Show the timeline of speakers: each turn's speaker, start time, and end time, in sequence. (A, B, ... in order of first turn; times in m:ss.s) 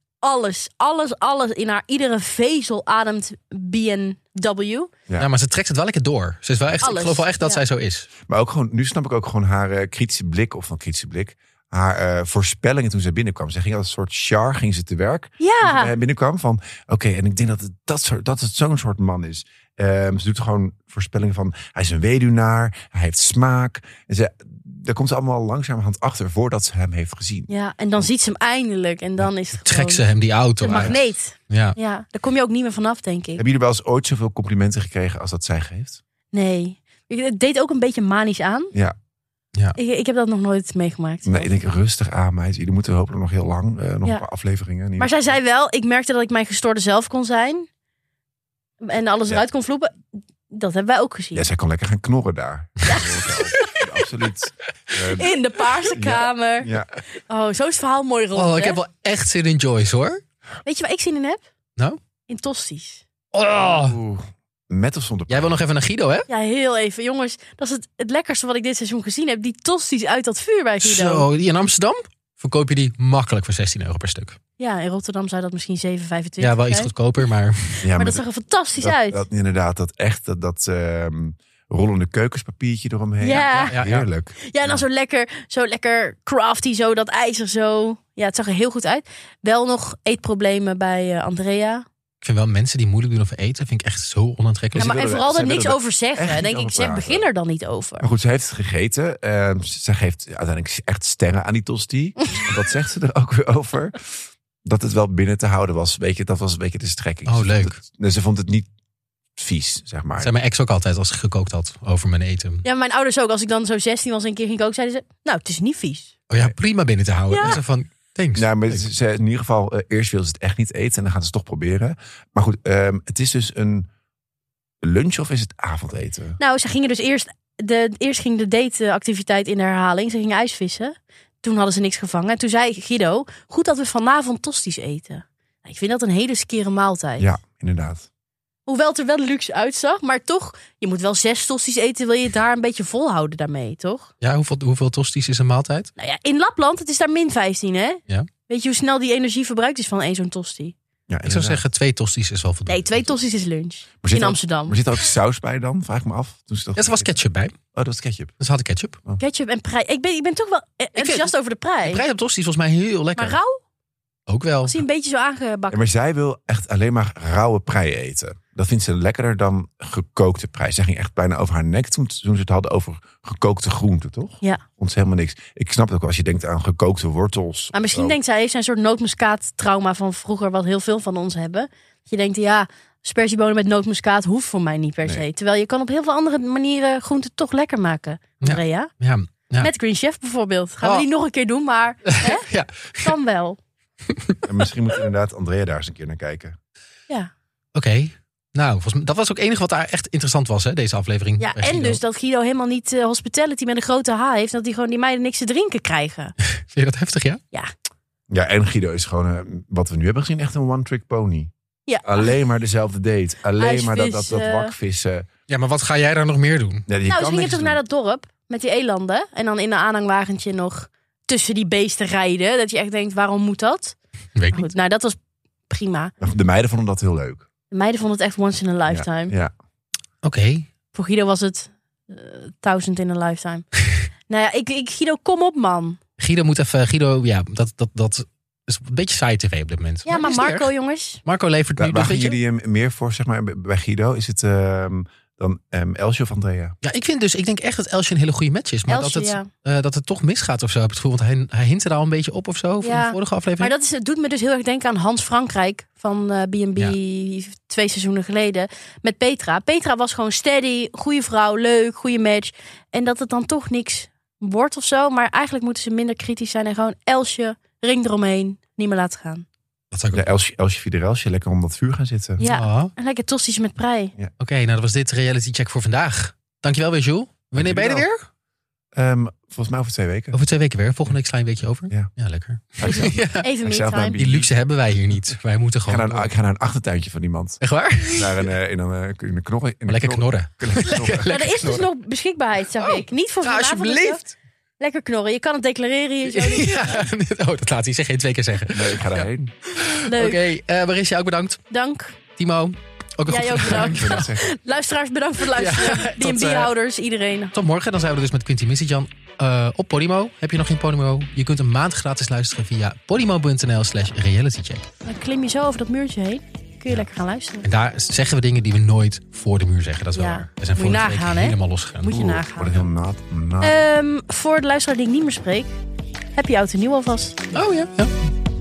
0:00.2-0:04.9 A
0:05.2-0:08.1 B
0:06.8-0:07.6 A
0:08.3-0:27.5 C
0:15.4-0:15.9 A
0:27.5-0:30.0 A
0:29.2-0:31.8 B
0:30.6-0:33.4 A
0:30.7-0:31.0 C
0:33.4-0:36.0 C
0:36.3-0:38.7 A
0:39.8-0:41.6 A
0:41.2-0:45.4 C
0:45.0-0:47.7 A
0:48.8-0:51.5 A
0:51.3-0:55.3 C
0:52.8-0:53.8 A
0:55.1-0:58.8 A
0:55.9-0:56.9 C
0:58.3-1:00.2 B
1:00.6-1:01.4 A
1:02.3-1:03.0 A
1:03.3-1:04.0 B
1:03.6-1:05.6 C
1:05.3-1:06.3 B
1:06.3-1:11.3 A
1:10.8-1:14.4 B
1:14.6-1:16.9 A
1:16.4-1:17.8 B
1:17.8-1:18.2 C
1:17.9-1:19.2 A
1:18.8-1:24.8 C
1:23.2-1:23.8 A
1:23.7-1:24.1 B
1:24.4-1:31.8 A
1:32.2-1:34.9 B
1:34.7-1:37.2 C
1:34.8-1:38.0 A
1:38.0-1:48.7 C
1:47.2-1:47.8 B
1:49.4-1:50.3 C
1:50.2-1:52.6 B
1:52.6-1:56.1 A
1:56.3-1:58.8 B
1:57.3-1:57.6 A
1:58.4-2:03.9 C
2:04.8-2:06.4 C
2:06.4-2:17.3 A
2:17.2-2:18.1 C
2:18.6-2:24.1 A
2:24.2-2:25.9 B
2:26.0-2:30.7 A
2:31.1-2:31.6 C
2:31.2-2:33.1 B
2:32.7-2:34.8 A
2:34.0-2:37.1 C
2:36.8-2:37.5 B
2:37.7-2:38.3 C
2:38.4-2:39.0 B
2:39.2-2:42.0 A
2:41.0-2:41.3 B
2:41.8-2:43.4 B
2:43.2-2:43.6 A
2:44.3-2:44.8 B
2:44.6-2:45.8 A
2:45.7-2:58.2 C
2:57.7-3:08.9 A
3:08.4-3:09.7 B
3:09.6-3:12.4 A
3:12.1-3:13.2 B
3:13.0-3:13.6 A
3:14.1-3:14.4 B
3:14.4-3:16.5 C
3:17.7-3:22.0 B
3:21.4-3:26.3 A
3:26.5-3:27.4 B
3:28.3-3:31.5 C
3:31.9-3:32.3 A
3:32.0-3:35.3 C
3:33.6-3:34.7 A
3:35.5-3:36.9 B
3:36.9-3:37.8 C
3:37.0-3:44.0 A
3:44.4-3:44.7 B
3:44.5-3:45.2 A
3:45.7-3:46.1 A
3:46.2-3:47.4 C
3:47.7-3:49.3 A
3:48.9-3:49.5 C
3:50.2-3:50.7 B
3:50.9-3:53.7 A
3:54.3-3:56.0 A
3:56.2-4:00.7 B
4:00.0-4:01.2 A
4:01.2-4:02.4 B
4:01.8-4:06.8 C
4:06.8-4:13.7 B
4:08.9-4:09.5 A
4:12.8-4:29.4 A
4:29.9-4:30.3 B
4:30.1-4:32.4 C
4:32.4-4:32.9 B
4:32.4-4:34.1 A
4:34.4-4:38.2 B
4:37.5-4:38.0 C
4:38.9-4:40.4 C
4:40.3-4:43.5 B
4:42.8-4:44.5 C
4:42.9-4:44.2 A
4:44.2-4:46.3 B
4:45.8-4:51.7 C
4:47.6-4:48.5 B
4:49.9-4:51.9 B
4:51.2-4:54.2 A
4:52.8-4:54.3 B
4:54.8-4:57.0 A
4:56.3-5:01.6 B
4:58.7-4:59.5 C
5:00.0-5:00.4 A
5:01.7-5:02.2 A
5:02.4-5:04.3 B
5:03.3-5:07.5 A
5:03.7-5:04.5 C
5:05.5-5:06.7 B
5:07.5-5:14.8 B
5:15.0-5:17.7 A
5:17.6-5:22.4 B
5:20.1-5:22.8 A
5:22.6-5:23.8 C
5:23.6-5:25.7 A
5:26.3-5:27.4 A
5:27.5-5:28.1 B